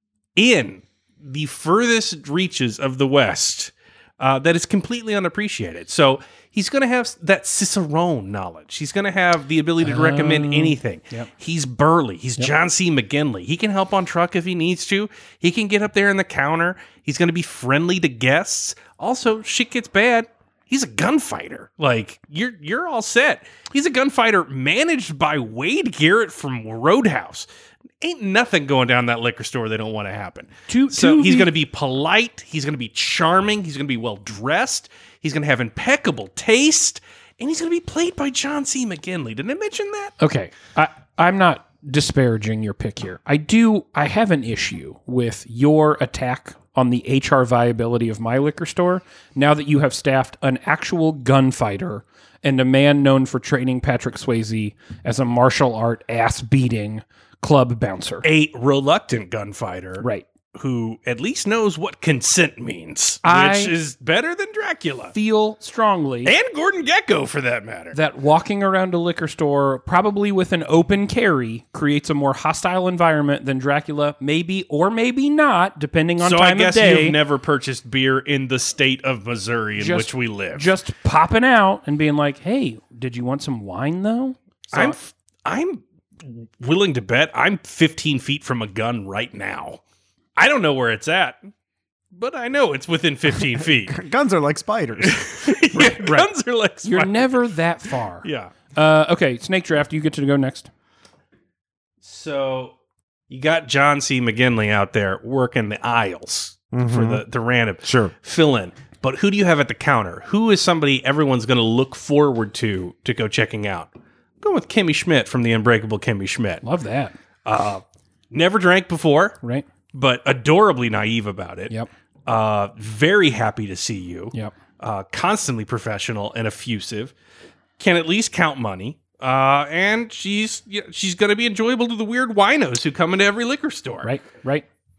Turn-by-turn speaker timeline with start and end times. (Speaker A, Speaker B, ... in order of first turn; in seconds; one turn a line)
Speaker A: 0.3-27.5
Speaker B: 9.8-11.3
Speaker A: 28.0-40.1
Speaker B: 30.7-31.5
Speaker B: 40.2-58.2
Speaker A: 58.2-65.1
Speaker B: 60.0-60.2
Speaker B: 63.2-63.7
Speaker B: 65.1-66.3
Speaker A: 66.2-68.0
Speaker B: 67.9-77.2
Speaker A: 76.2-80.7
Speaker B: 79.8-85.0
Speaker A: 84.7-89.8
Speaker A: 90.3-91.4
Speaker A: 92.1-94.0
Speaker C: 93.9-95.3
Speaker A: 95.0-97.3
Speaker B: 95.7-96.3
Speaker B: 96.8-100.7
Speaker A: 98.2-98.5
Speaker A: 102.0-102.7
Speaker A: 103.3-113.9
Speaker C: 106.7-107.2
Speaker C: 107.8-108.1
Speaker A: 114.4-116.6
Speaker B: 116.6-117.1
Speaker A: 117.5-119.4
Speaker A: 119.9-121.7
Speaker A: 122.3-127.1
Speaker A: 127.8-134.1
Speaker B: 134.0-134.7